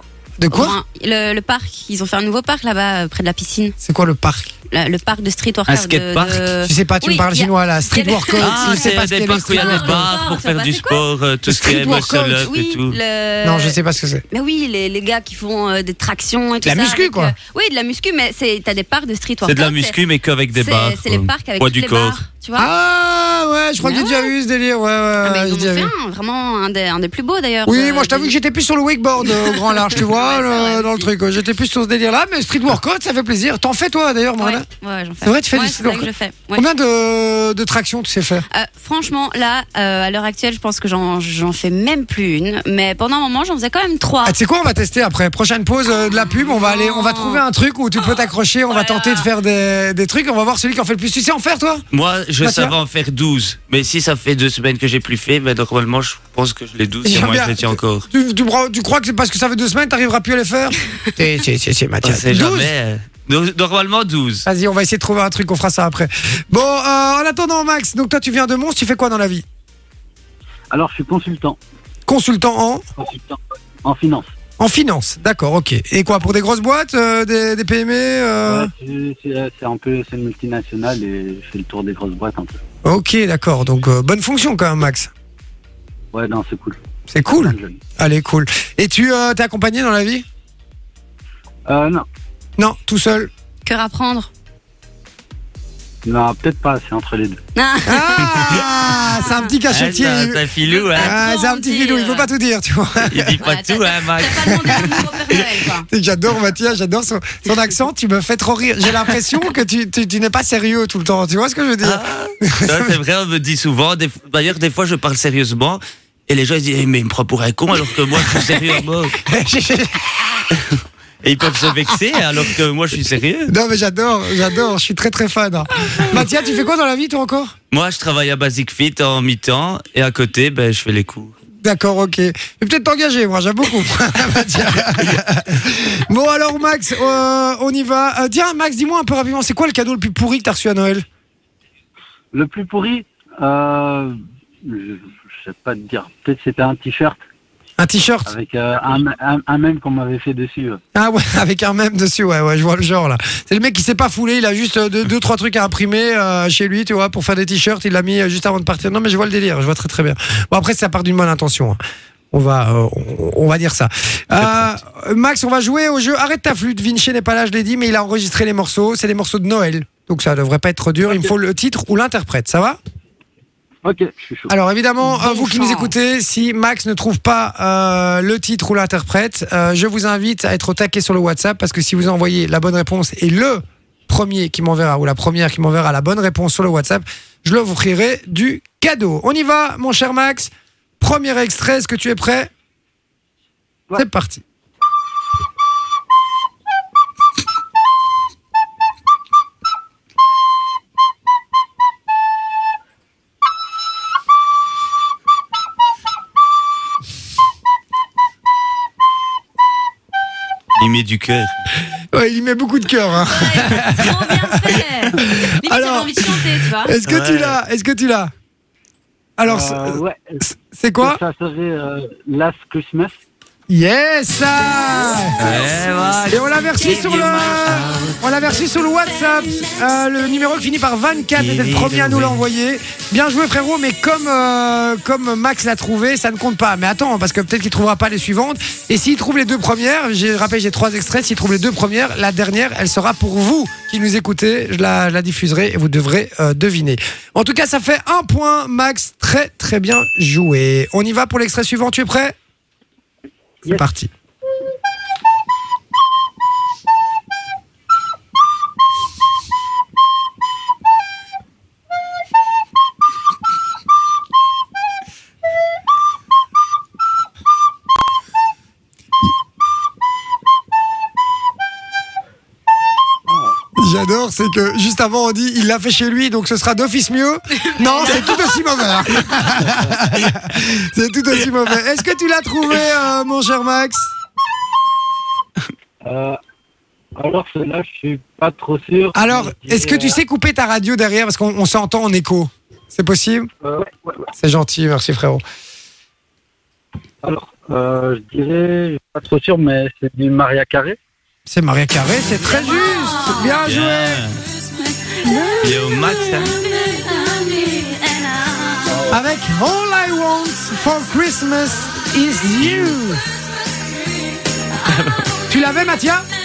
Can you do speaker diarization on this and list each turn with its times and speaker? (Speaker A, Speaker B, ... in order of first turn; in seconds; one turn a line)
Speaker A: 0.4-0.8
Speaker B: 0.5-3.8
Speaker A: 3.8-4.5
Speaker B: 4.7-11.1
Speaker C: 5.7-6.5
Speaker A: 6.7-10.1
Speaker C: 8.4-13.0
Speaker A: 11.5-12.5
Speaker B: 11.7-13.8
Speaker A: 13.4-14.2
Speaker B: 14.3-20.0
Speaker A: 16.6-17.4
Speaker C: 19.4-22.2
Speaker B: 20.5-22.7
Speaker A: 22.6-25.9
Speaker B: 23.8-24.3
Speaker B: 25.2-28.4
Speaker A: 27.7-34.7
Speaker B: 29.2-31.1
Speaker B: 34.4-36.7
Speaker A: 35.2-38.5
Speaker B: 38.5-44.4
Speaker A: 44.2-51.9
Speaker B: 45.9-47.4
Speaker B: 48.0-49.3
Speaker C: 51.9-58.1
Speaker A: 52.4-52.8
Speaker A: 57.0-62.7
Speaker C: 62.0-64.5
Speaker A: 64.5-69.5
Speaker D: 70.7-71.6
Speaker A: 72.1-72.8
Speaker D: 73.0-74.3
Speaker A: 74.6-78.7
Speaker D: 78.5-82.6
Speaker A: 82.8-85.1
Speaker D: 86.1-87.8
Speaker A: 87.1-90.2
Speaker D: 91.7-92.1
Speaker A: 92.6-93.3
Speaker B: 93.7-94.3
Speaker D: 96.0-97.4
Speaker B: 97.5-99.5
Speaker A: 97.8-100.4
Speaker C: 99.7-101.2
Speaker B: 100.7-102.3
Speaker A: 101.0-103.4
Speaker C: 103.0-105.0
Speaker B: 103.4-105.9
Speaker A: 105.9-113.0
Speaker C: 111.8-119.2
Speaker A: 119.2-120.0
Speaker C: 120.5-123.5
Speaker A: 123.5-127.5
Speaker C: 127.7-131.3
Speaker A: 131.6-141.1
Speaker D: 142.3-147.2
Speaker A: 147.8-148.3
Speaker D: 148.3-150.8
Speaker A: 150.9-161.8
Speaker A: 162.3-172.8
Speaker C: 164.4-164.7
Speaker D: 171.1-171.3
Speaker D: 173.8-174.5
Speaker A: 174.5-192.5
Speaker B: 175.0-175.9
Speaker A: 194.0-194.4
Speaker C: 210.8-211.5
Speaker A: 212.1-218.3
Speaker B: 213.2-216.9
Speaker C: 217.0-217.6
Speaker A: 219.4-221.2
Speaker D: 219.4-220.4
Speaker D: 221.0-223.2
Speaker A: 223.7-225.6
Speaker C: 225.4-228.2
Speaker A: 226.3-252.3
Speaker C: 231.4-232.4
Speaker A: 253.7-254.1
Speaker A: 273.8-284.1
Speaker B: 277.6-279.5
Speaker D: 286.0-286.4
Speaker D: 287.1-290.2
Speaker A: 289.1-293.5
Speaker D: 293.6-294.2
Speaker A: 294.4-295.4
Speaker D: 297.2-301.0
Speaker A: 301.5-304.2
Speaker B: 302.4-303.6
Speaker C: 303.6-304.4
Speaker B: 304.7-309.0
Speaker C: 305.6-306.6
Speaker A: 309.1-313.2
Speaker C: 312.6-313.0
Speaker C: 314.9-315.2
Speaker A: 315.5-316.2